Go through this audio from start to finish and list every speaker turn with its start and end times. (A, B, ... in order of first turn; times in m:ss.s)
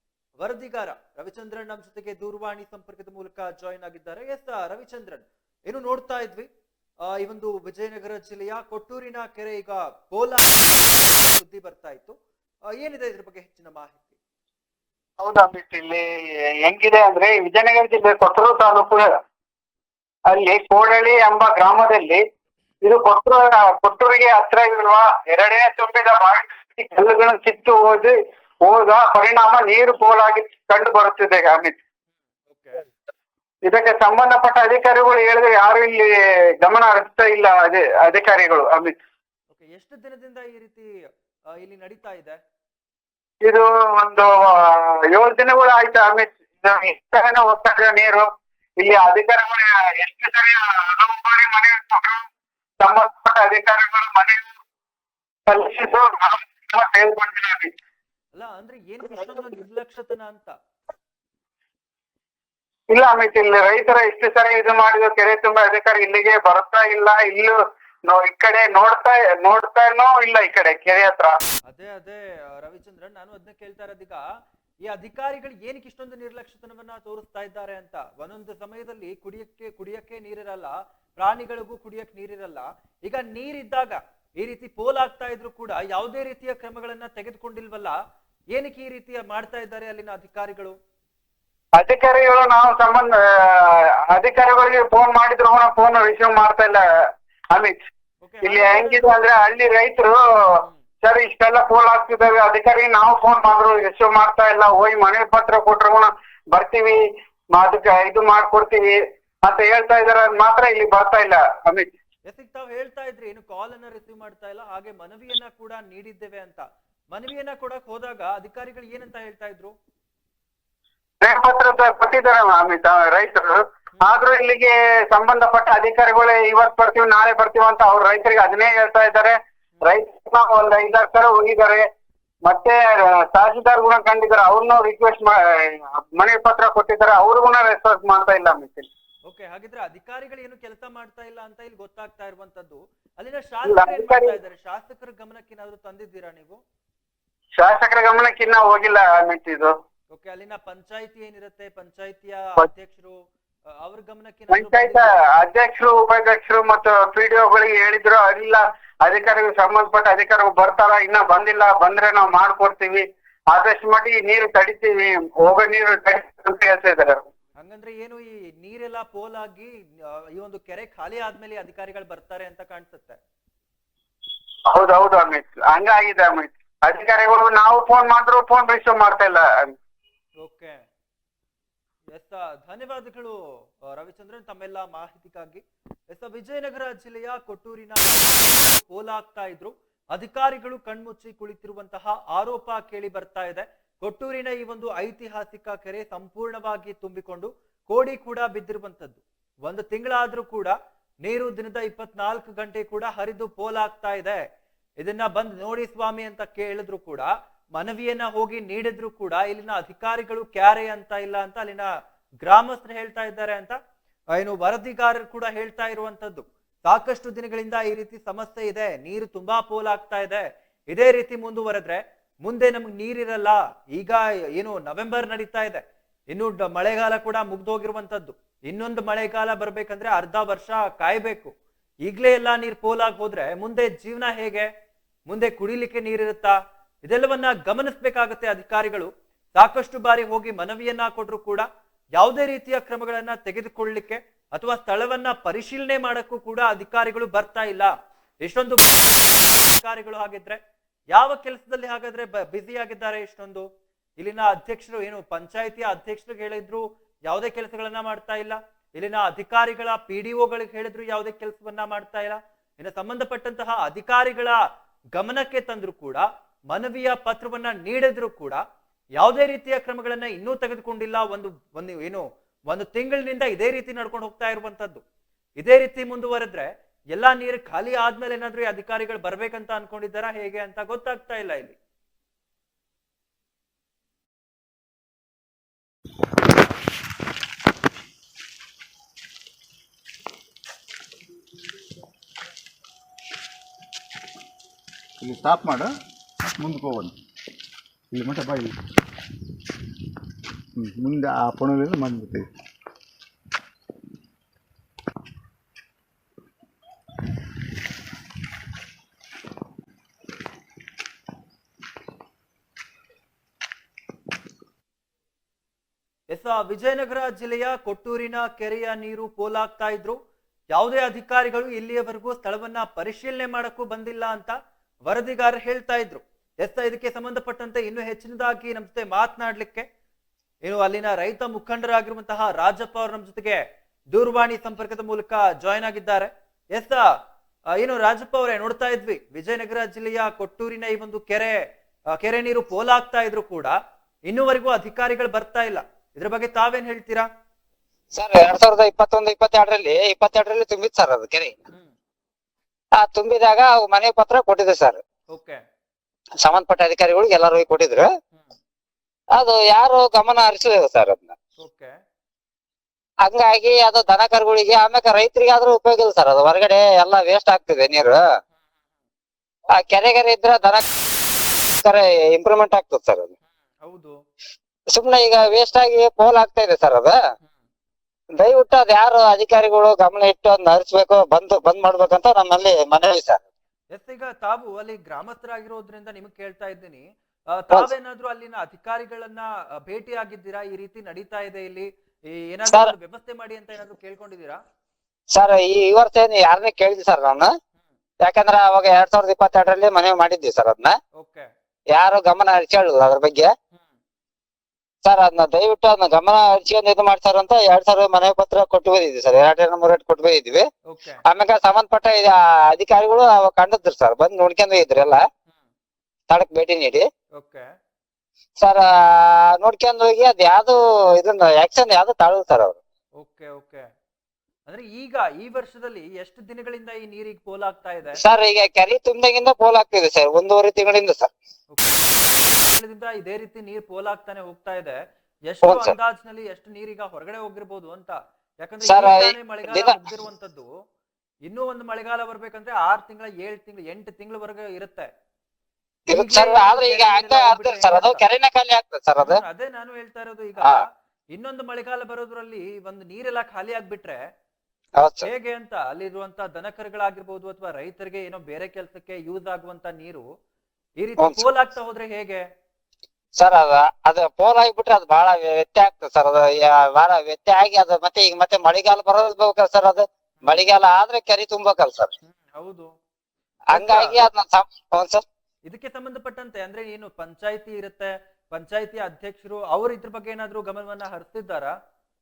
0:00.4-0:06.5 A
0:07.1-0:12.2 A
0:12.7-0:14.2 A
0:15.2-0:16.0 B
0:16.6-0:19.1 B
0:20.3-0:22.2 B
0:22.8-0:31.8 B
0:32.5-0:32.9 A
0:33.6-0:39.0 B
0:39.5-0:40.9 A
0:41.6-0:42.4 A
0:43.4-0:48.3 B
0:48.8-0:52.2 B
0:52.8-0:54.5 B
0:55.5-0:57.7 B
0:58.4-1:00.6 A
1:02.9-1:11.4 B
1:11.7-1:14.2 A
1:14.8-1:28.0 A
1:28.5-1:30.8 A
1:31.8-1:37.8 B
1:38.2-1:39.1 A
1:38.4-1:40.2 B
1:41.0-1:47.0 B
1:47.5-1:51.9 B
1:52.3-1:59.7 A
2:01.2-2:11.9 B
2:12.5-2:18.9 B
2:19.3-2:26.6 A
2:23.7-2:24.4 B
2:27.6-2:29.8 B
2:30.1-2:33.2 A
2:33.7-2:35.1 A
2:34.5-2:47.3 B
2:47.6-2:49.7 A
2:50.3-2:53.2 A
2:54.7-2:59.7 B
3:00.4-3:00.8 A
3:02.1-3:03.4 A
3:03.9-3:24.4 A
3:25.0-3:31.9 A
3:32.4-3:33.8 A
3:34.4-3:51.5 A
3:52.0-3:54.7 A
3:55.3-3:56.5 A
3:57.1-4:01.7 A
4:02.2-4:10.6 A
4:11.1-4:13.7 A
4:14.2-4:24.6 A
4:25.2-4:28.6 A
4:29.2-4:35.0 A
4:35.6-4:41.8 A
4:55.2-4:55.9 C
4:56.6-4:57.1 C
4:58.1-4:58.7 C
5:00.8-5:02.4 C
5:16.3-5:20.2 A
5:20.7-5:29.9 A
5:30.7-5:33.6 A
5:34.1-5:37.0 A
5:37.8-5:41.6 A
5:42.2-5:43.8 A
5:44.3-5:47.3 A
5:48.1-5:51.6 D
5:53.0-5:55.0 D
5:55.3-5:55.6 A
5:56.4-5:58.1 D
5:59.4-6:01.4 D
6:01.6-6:01.9 A
6:03.2-6:08.2 D
6:09.8-6:10.8 D
6:11.8-6:13.4 D
6:13.8-6:14.2 A
6:14.9-6:17.2 D
6:18.4-6:23.4 D
6:23.9-6:34.6 A
6:35.4-6:37.5 D
6:38.2-6:41.0 D
6:41.2-6:41.5 A
6:41.9-6:43.5 D
6:45.0-6:50.7 D
6:50.9-6:51.2 A
6:51.3-6:55.2 D
6:56.3-6:57.1 D
6:57.4-6:57.6 A
6:58.6-7:02.8 D
7:03.2-7:03.8 A
7:04.7-7:08.2 A
7:08.2-7:11.3 D
7:11.7-7:20.7 A
7:15.6-7:15.9 D
7:18.9-7:19.9 D
7:21.5-7:25.1 A
7:26.1-7:29.4 D
7:26.1-7:28.2 A
7:29.2-7:30.8 A
7:31.3-7:34.2 A
7:35.0-7:35.3 D
7:35.2-7:40.3 A
7:41.0-7:42.4 A
7:43.4-7:52.1 D
7:50.4-7:50.7 A
7:52.3-7:52.9 A
7:53.7-7:54.2 A
7:53.7-7:55.2 D
7:55.7-8:01.7 A